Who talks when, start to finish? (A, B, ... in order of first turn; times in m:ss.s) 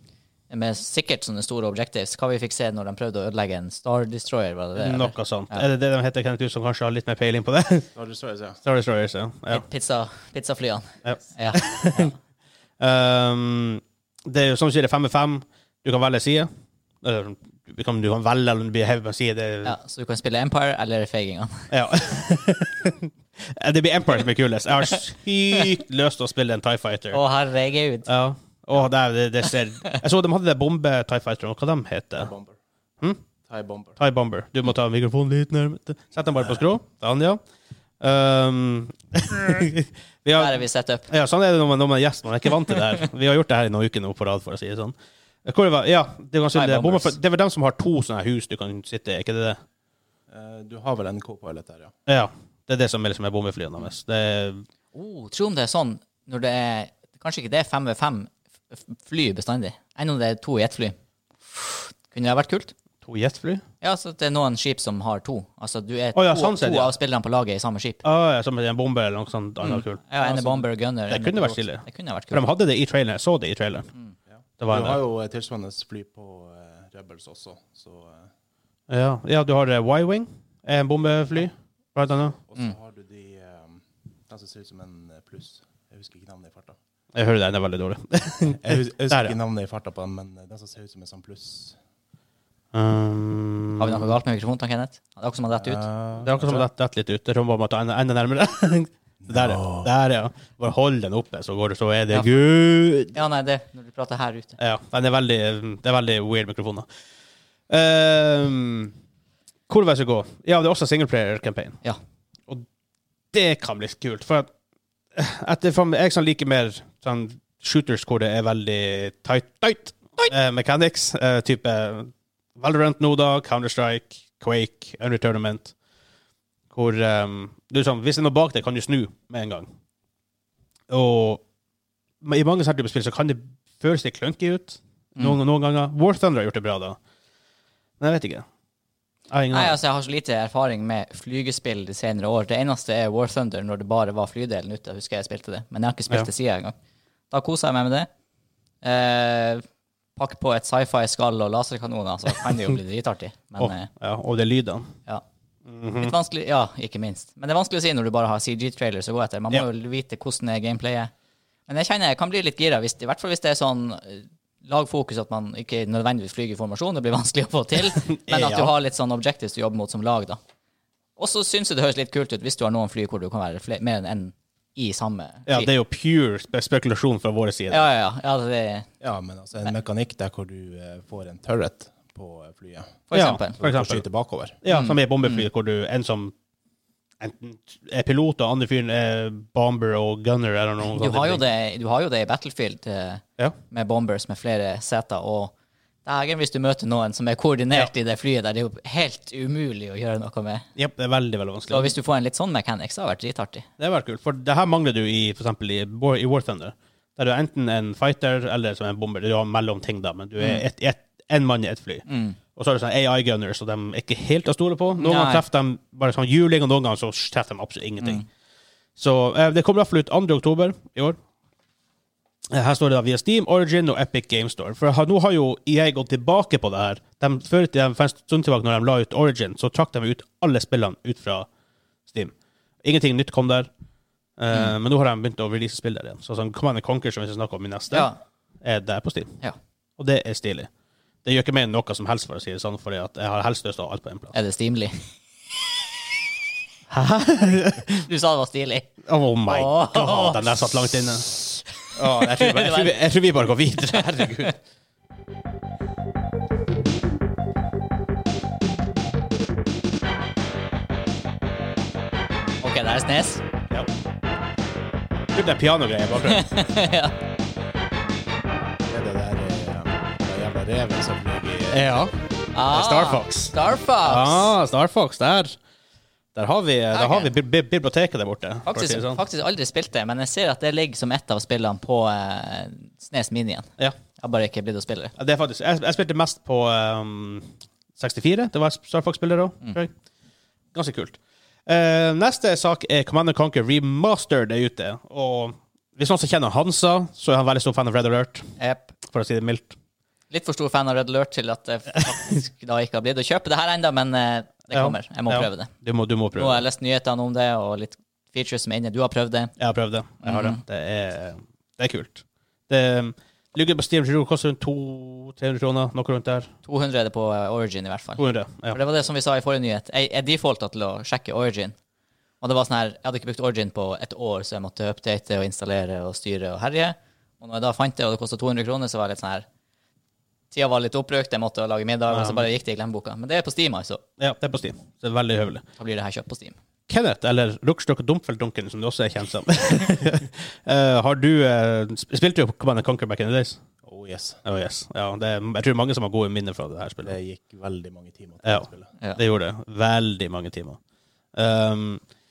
0:00.5-0:05.6 A
0:04.8-0:07.9 B
0:08.0-0:08.6 C
0:08.6-0:09.6 B
0:09.5-0:12.1 A
0:11.0-0:12.1 B
0:12.8-0:16.5 B
0:17.0-0:19.8 B
0:19.6-0:21.7 A
0:21.7-0:27.2 B
0:27.1-0:28.1 A
0:28.1-0:32.3 B
0:32.2-0:32.6 C
0:33.5-0:34.0 C
0:34.0-0:37.4 B
0:38.0-0:49.6 B
0:40.4-0:41.1 A
0:46.5-0:47.2 A
0:50.3-0:51.9 C
0:52.1-0:54.7 B
0:54.9-1:01.0 A
1:01.5-1:02.7 A
1:03.0-1:03.6 B
1:03.8-1:08.0 A
1:06.1-1:06.9 B
1:08.0-1:13.9 B
1:09.6-1:12.5 A
1:14.3-1:18.3 C
1:14.6-1:15.0 B
1:18.9-1:22.4 B
1:22.5-1:26.8 C
1:27.2-1:29.4 B
1:28.5-1:31.8 C
1:32.7-1:34.2 B
1:33.8-1:35.8 A
1:35.6-1:36.7 C
1:36.2-1:43.2 B
1:39.2-1:39.9 C
1:43.1-1:44.6 A
1:44.6-1:46.9 B
1:47.7-1:48.9 B
1:49.7-1:51.8 B
1:53.3-1:54.5 B
1:55.2-2:05.7 B
2:06.7-2:09.7 B
2:10.9-2:11.4 B
2:12.2-2:17.0 B
2:18.0-2:18.5 B
2:19.3-2:19.8 B
2:19.5-2:26.8 A
2:27.3-2:28.1 A
2:28.8-2:29.6 A
2:30.2-2:33.9 A
2:33.6-2:34.9 B
2:35.7-2:36.1 B
2:36.0-2:41.1 A
2:41.7-2:50.4 A
2:48.0-2:48.7 B
2:51.2-2:55.7 A
2:55.5-2:57.9 B
2:57.7-2:58.9 A
2:59.0-3:03.0 C
3:03.1-3:03.6 A
3:03.1-3:04.0 B
3:03.6-3:04.6 C
3:04.6-3:06.3 B
3:04.7-3:05.5 A
3:07.2-3:11.4 B
3:10.8-3:15.5 A
3:16.0-3:20.7 A
3:20.8-3:21.9 B
3:21.7-3:23.7 A
3:23.8-3:32.0 B
3:30.4-3:30.6 A
3:32.1-3:32.4 A
3:32.6-3:38.2 B
3:35.0-3:35.4 A
3:39.0-3:41.2 B
3:42.5-3:51.5 B
3:52.1-3:53.7 B
3:54.4-3:58.1 B
3:57.9-3:58.2 A
3:58.6-3:59.4 B
4:00.0-4:00.7 B
4:01.2-4:04.4 B
4:04.3-4:05.1 A
4:06.9-4:08.0 B
4:07.9-4:10.7 A
4:09.0-4:11.3 B
4:11.9-4:14.6 B
4:12.0-4:13.0 A
4:13.8-4:14.5 A
4:22.6-4:23.4 A
4:25.3-4:26.5 B
4:26.2-4:27.1 A
4:28.8-4:32.1 C
4:31.7-4:32.1 B
4:32.6-4:34.6 A
4:32.7-4:35.6 B
4:36.3-4:39.2 B
4:36.9-4:37.3 A
4:38.7-4:45.2 A
4:45.2-4:49.9 B
4:50.7-4:58.5 B
4:58.6-4:58.9 A
4:59.1-4:59.8 B
5:00.3-5:05.7 A
5:04.7-5:06.6 B
5:06.4-5:09.6 A
5:09.6-5:16.5 B
5:10.2-5:10.6 A
5:16.7-5:21.8 A
5:18.2-5:18.8 B
5:22.4-5:29.5 A
5:30.5-5:34.0 A
5:32.1-5:32.5 B
5:34.2-5:35.6 B
5:35.8-5:36.6 A
5:36.9-5:43.6 B
5:43.8-5:44.4 C
5:44.4-5:47.2 B
5:47.0-5:48.9 C
5:48.4-5:50.8 B
5:51.4-5:52.0 B